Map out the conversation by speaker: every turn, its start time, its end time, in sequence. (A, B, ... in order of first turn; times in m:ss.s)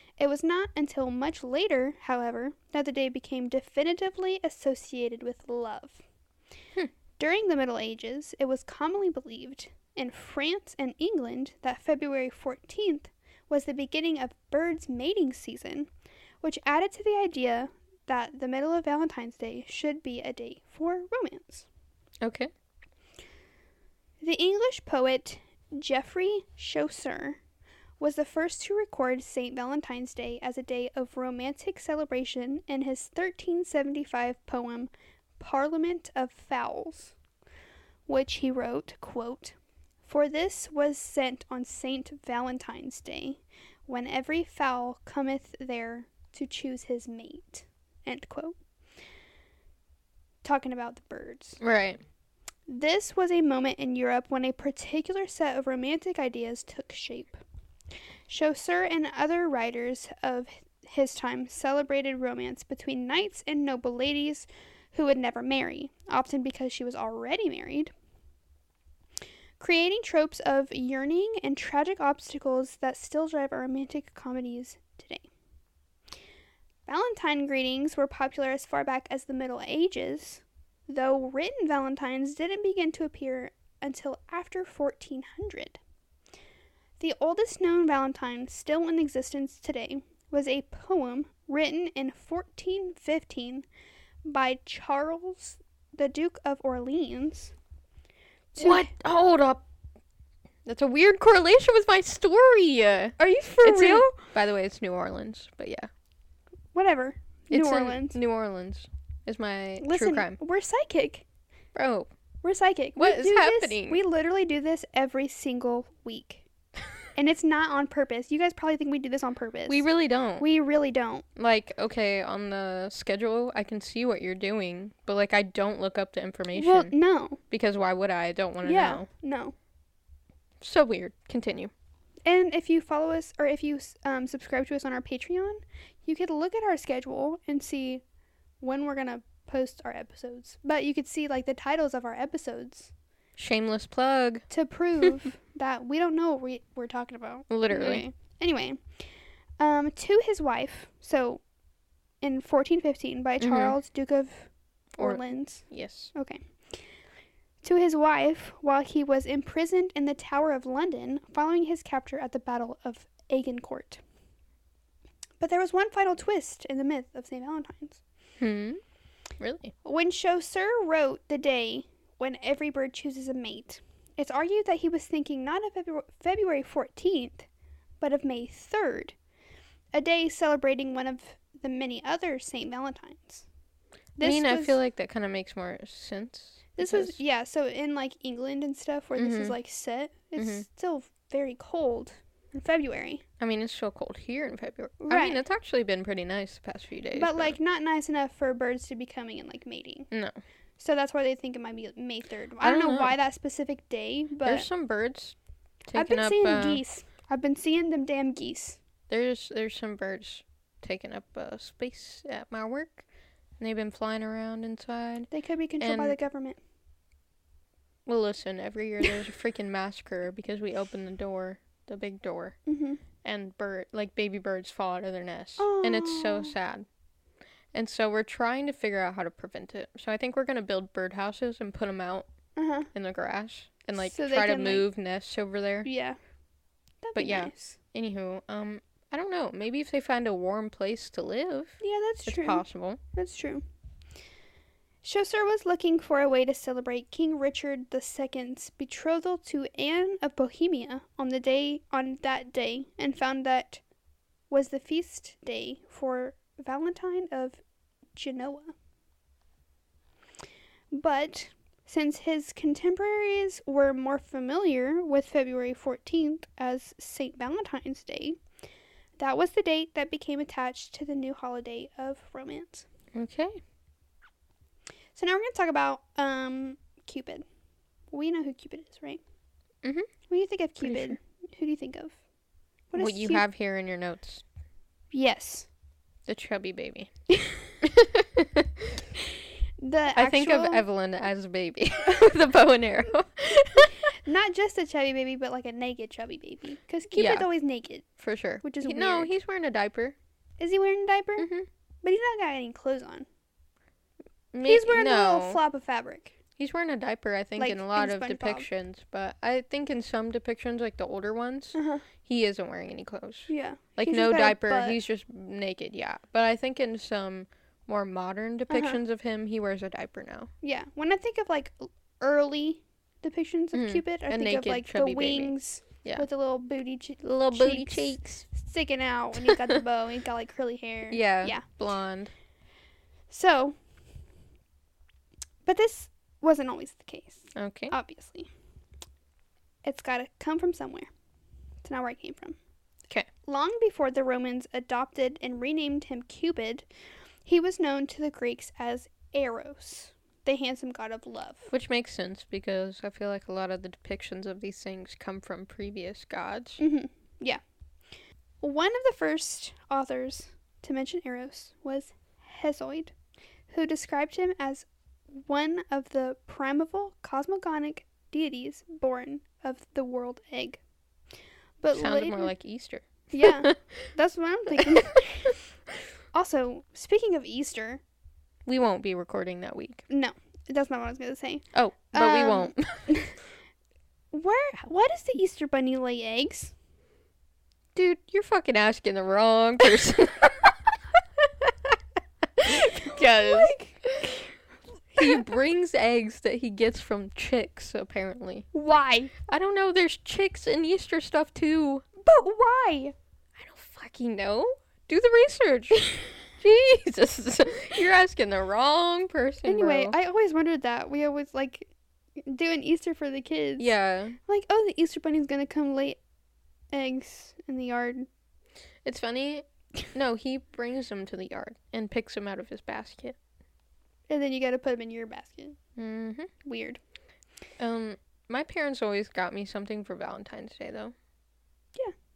0:00.2-0:06.0 A
0:07.2-0:15.9 A
0:16.4-0:21.7 A
0:22.2-0:22.5 B
0:24.2-0:27.4 A
0:28.0-0:37.1 A
0:38.1-0:48.5 A
0:50.4-0:51.6 A
0:51.6-0:52.0 B
0:52.7-0:57.4 A
0:58.3-1:07.9 A
1:09.6-1:15.3 A
1:16.9-1:25.8 A
1:27.0-1:33.6 A
1:34.2-1:37.5 A
1:38.5-1:38.9 A
1:38.6-1:39.6 B
1:40.6-1:45.9 B
1:43.2-1:44.3 A
1:46.7-1:48.2 A
1:47.5-1:50.4 B
1:49.8-1:51.2 A
1:51.7-1:52.1 B
1:52.4-1:56.4 A
1:53.0-1:54.0 B
1:57.1-1:59.8 A
1:59.7-2:00.4 B
2:00.4-2:01.2 A
2:01.4-2:06.9 B
2:06.5-2:07.4 A
2:07.5-2:09.1 B
2:08.6-2:09.5 A
2:10.6-2:11.7 B
2:12.2-2:18.0 A
2:18.6-2:22.9 A
2:23.4-2:24.4 B
2:24.5-2:28.8 A
2:27.5-2:28.0 B
2:29.6-2:31.4 A
2:32.2-2:36.4 A
2:33.4-2:33.7 B
2:35.0-2:36.1 B
2:37.6-2:44.0 A
2:45.4-2:48.0 A
2:48.4-2:48.8 B
2:49.4-2:49.7 B
2:49.8-2:57.5 A
2:58.0-2:59.1 A
2:59.9-3:03.4 A
3:04.2-3:04.8 A
3:04.2-3:07.2 B
3:06.8-3:13.2 A
3:09.2-3:09.6 B
3:10.4-3:10.6 B
3:13.4-3:17.6 B
3:15.0-3:15.4 A
3:17.1-3:20.1 A
3:20.1-3:20.4 B
3:20.8-3:24.7 A
3:22.6-3:23.1 B
3:24.4-3:25.3 B
3:25.9-3:26.8 B
3:25.9-3:28.8 A
3:29.1-3:33.0 B
3:33.6-3:35.3 B
3:35.3-3:36.6 A
3:35.8-3:36.2 B
3:38.0-3:42.6 B
3:42.6-3:43.0 A
3:43.2-3:46.8 B
3:45.6-3:46.5 A
3:47.7-3:52.3 B
3:52.6-3:52.9 A
3:52.9-3:55.9 B
3:54.0-3:54.8 A
3:55.8-3:56.2 A
3:57.0-3:57.8 A
3:57.2-4:03.0 B
4:01.8-4:03.6 A
4:05.0-4:13.8 A
4:14.5-4:17.6 A
4:18.1-4:18.7 A
4:20.9-4:28.4 A
4:29.2-4:32.9 A
4:33.1-4:33.6 B
4:35.1-4:37.4 A
4:38.1-4:39.2 A
4:40.3-4:42.2 A
4:40.8-4:41.2 B
4:42.9-4:43.4 A
4:43.0-4:44.4 B
4:45.1-4:45.7 A
4:46.2-4:47.1 B
4:47.3-4:47.7 A
4:47.8-4:49.0 B
4:49.8-4:50.8 A
4:50.1-4:54.1 B
4:54.2-4:58.0 A
4:57.1-4:57.5 B
4:58.2-5:00.2 B
4:58.6-4:59.3 A
5:00.6-5:01.5 A
5:01.4-5:01.7 B
5:02.0-5:03.2 A
5:04.5-5:05.6 B
5:04.6-5:06.3 A
5:06.6-5:20.5 B
5:07.6-5:08.7 A
5:11.7-5:12.0 A
5:13.5-5:15.0 A
5:18.7-5:19.0 A
5:20.6-5:31.6 A
5:23.7-5:26.2 B
5:27.2-5:28.4 B
5:29.4-5:29.8 B
5:31.1-5:32.3 B
5:33.3-5:33.8 A
5:35.6-5:38.5 A
5:37.5-5:37.9 B
5:39.8-5:41.1 A
5:41.8-5:42.6 A
5:43.4-5:46.9 A
5:47.4-5:51.7 A
5:51.7-5:56.8 B
5:56.8-5:57.6 A
5:58.6-6:03.1 A
6:03.7-6:10.8 A
6:11.8-6:12.5 A
6:11.9-6:14.1 B
6:13.3-6:15.6 A
6:14.7-6:15.5 B
6:16.3-6:18.0 A
6:18.6-6:20.0 B
6:20.1-6:23.4 A
6:21.7-6:23.1 B
6:24.3-6:26.7 A
6:27.9-6:30.8 B
6:31.4-6:32.0 B
6:32.6-6:34.4 B
6:32.8-6:34.0 A
6:35.2-6:35.4 A
6:35.2-6:38.6 B
6:38.7-6:39.3 A
6:39.5-6:42.0 B
6:42.2-6:43.1 A
6:43.6-6:50.1 B
6:49.6-6:51.9 A
6:52.4-6:53.9 A
6:53.8-6:54.4 B
6:54.5-6:56.2 A
6:56.9-6:58.3 A
6:59.0-7:03.4 B
7:04.3-7:05.8 A
7:06.0-7:06.5 B
7:06.6-7:07.0 A
7:07.8-7:11.1 B